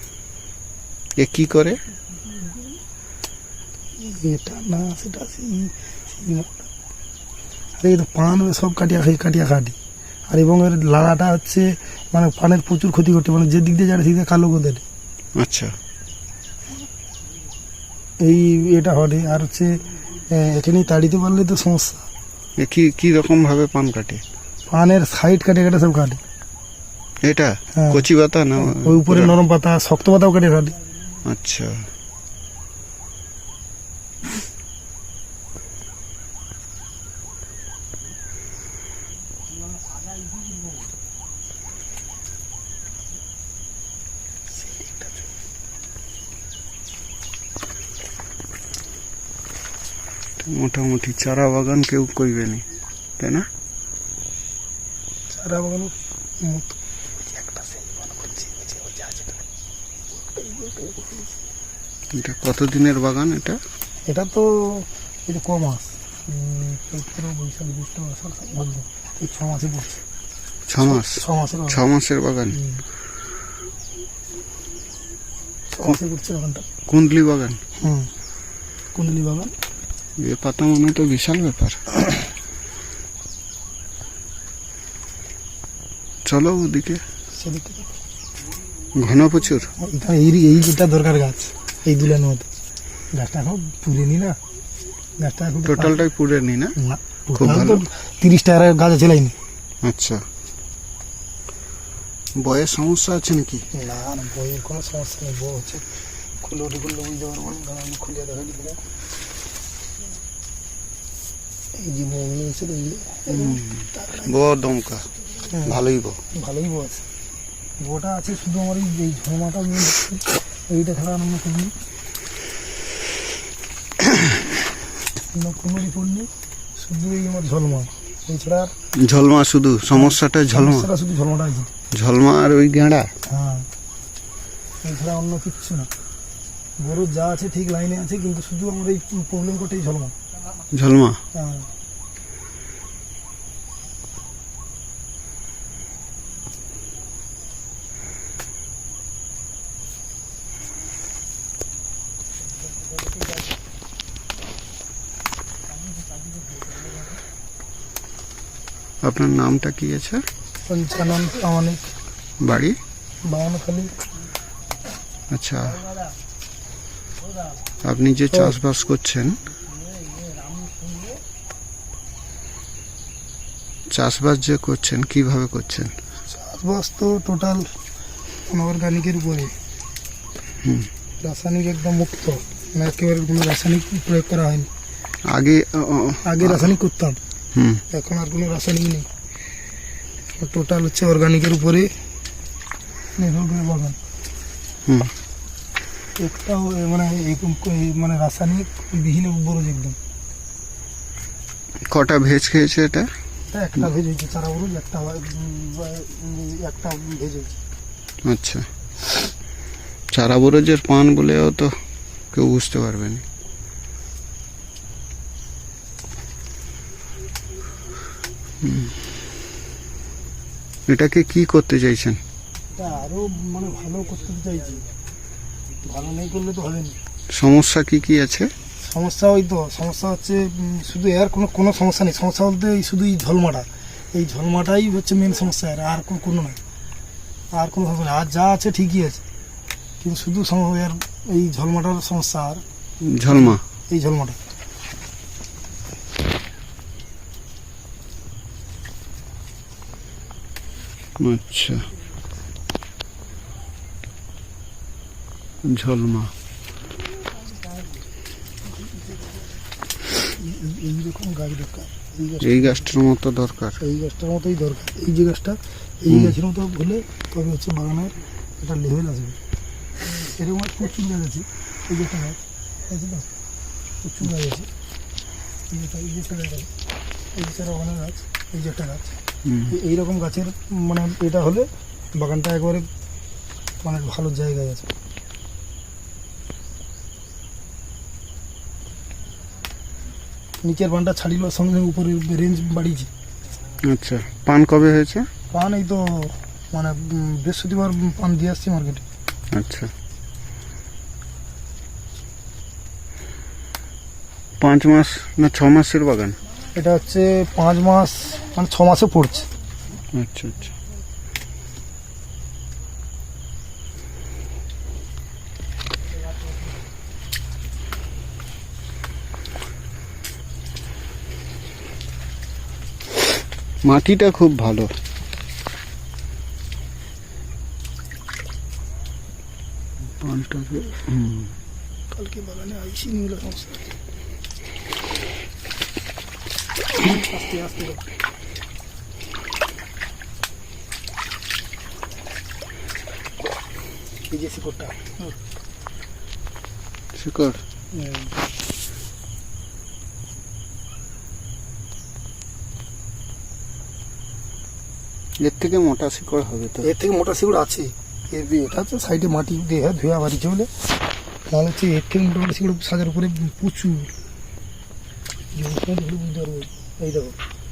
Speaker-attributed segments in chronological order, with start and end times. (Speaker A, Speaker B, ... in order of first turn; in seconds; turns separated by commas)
Speaker A: 1.2-1.8, Speaker B: 4.0-6.7, Speaker B: 7.8-9.8, Speaker B: 10.3-14.8, Speaker A: 15.4-15.7, Speaker B: 18.2-22.1, Speaker A: 22.6-24.2, Speaker B: 24.7-26.2, Speaker A: 27.2-29.4, Speaker B: 27.7-28.0, Speaker B: 28.6-30.8, Speaker A: 31.2-31.9, Speaker B: 44.6-45.1, Speaker A: 50.4-52.6, Speaker A: 53.2-53.5, Speaker B: 55.3-59.4, Speaker B: 60.2-61.3, Speaker A: 62.1-63.6, Speaker B: 64.0-70.0, Speaker A: 70.7-72.6, Speaker B: 70.8-71.8, Speaker B: 72.5-72.8, Speaker B: 75.7-76.7, Speaker A: 76.9-77.6, Speaker B: 77.8-78.1, Speaker B: 78.9-79.5, Speaker A: 80.2-81.8, Speaker A: 86.2-87.0, Speaker B: 87.3-87.9, Speaker A: 88.9-89.7, Speaker B: 89.8-92.5, Speaker B: 93.1-94.4, Speaker B: 95.2-96.0, Speaker A: 95.7-96.8, Speaker B: 96.8-99.3, Speaker A: 97.3-97.8, Speaker A: 99.8-100.2, Speaker A: 102.4-103.7, Speaker B: 103.7-105.9, Speaker B: 106.4-108.8, Speaker B: 111.7-114.3, Speaker A: 113.3-116.2, Speaker B: 116.3-117.0, Speaker B: 117.8-121.7, Speaker B: 125.3-128.7, Speaker A: 128.9-130.9, Speaker B: 129.9-131.7, Speaker A: 131.9-133.1, Speaker B: 133.2-133.7, Speaker B: 134.8-135.9, Speaker B: 136.8-140.1, Speaker A: 140.7-141.2, Speaker B: 141.3-141.7, Speaker A: 159.0-160.2, Speaker B: 160.7-161.9, Speaker A: 162.4-162.8, Speaker B: 163.2-163.9, Speaker A: 165.3-165.8, Speaker A: 167.8-169.5, Speaker A: 173.9-175.9, Speaker B: 176.3-177.7, Speaker B: 178.4-179.5, Speaker A: 180.6-180.9, Speaker B: 181.2-184.7, Speaker A: 185.3-186.7, Speaker B: 186.2-187.2, Speaker A: 187.5-187.8, Speaker B: 187.9-189.1, Speaker B: 190.4-191.9, Speaker B: 193.2-194.0, Speaker A: 194.9-195.1, Speaker B: 196.2-200.0, Speaker A: 201.9-203.1, Speaker B: 203.5-207.6, Speaker A: 208.2-208.7, Speaker A: 210.1-211.7, Speaker A: 212.3-213.2, Speaker A: 218.6-218.9, Speaker A: 220.9-222.2, Speaker B: 222.7-224.9, Speaker B: 225.8-227.0, Speaker A: 227.3-228.5, Speaker B: 228.8-236.6, Speaker B: 237.5-239.2, Speaker B: 240.0-242.6, Speaker A: 243.0-243.6, Speaker B: 243.3-244.4, Speaker A: 251.2-251.9, Speaker A: 255.6-256.3, Speaker B: 260.2-262.9, Speaker A: 262.4-263.8, Speaker B: 263.8-269.4, Speaker A: 266.1-266.4, Speaker B: 270.1-273.3, Speaker B: 274.0-274.7, Speaker B: 275.7-276.7, Speaker B: 277.3-282.9, Speaker A: 279.4-279.8, Speaker B: 283.8-284.9, Speaker B: 290.6-293.1, Speaker A: 293.8-295.3, Speaker B: 295.5-299.1, Speaker A: 299.5-299.9, Speaker A: 304.6-306.4, Speaker B: 306.7-309.5, Speaker A: 310.1-310.7, Speaker A: 323.8-324.9, Speaker A: 330.2-331.5, Speaker B: 332.1-333.9, Speaker B: 336.9-338.1, Speaker B: 344.3-345.3, Speaker A: 347.1-347.6, Speaker B: 347.9-348.3, Speaker A: 355.4-356.9, Speaker B: 356.8-360.7, Speaker B: 361.5-364.1, Speaker B: 365.5-367.4